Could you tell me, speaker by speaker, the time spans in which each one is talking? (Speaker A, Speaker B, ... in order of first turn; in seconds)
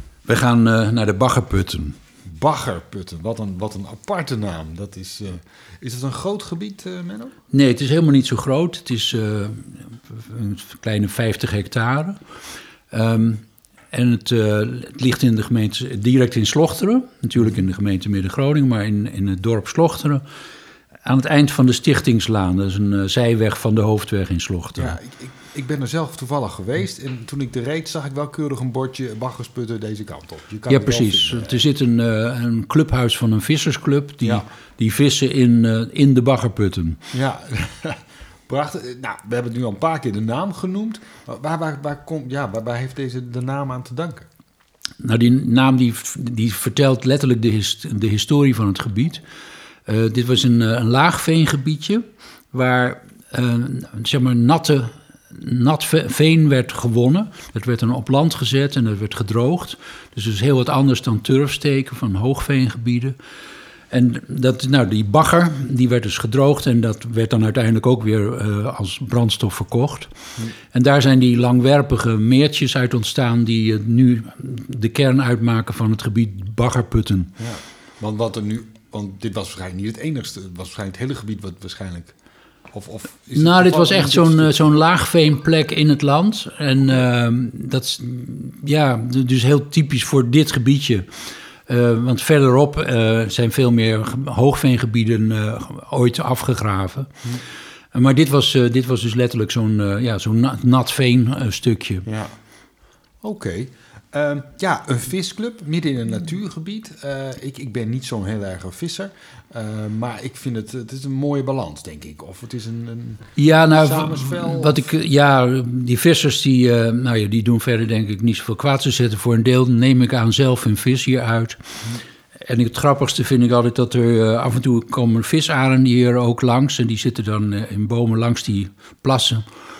Speaker A: 0.2-2.0, 7.5-12.2, 12.9-20.2, 21.0-24.9, 30.7-37.0, 45.0-49.2, 49.9-63.1, 63.9-70.1, 70.7-77.3, 83.3-97.1, 97.9-102.0, 113.4-121.6, 122.4-129.4
Speaker B: 2.2-7.3, 24.8-31.6, 37.1-44.3, 77.4-82.1, 82.7-84.8, 102.0-102.3, 103.2-114.9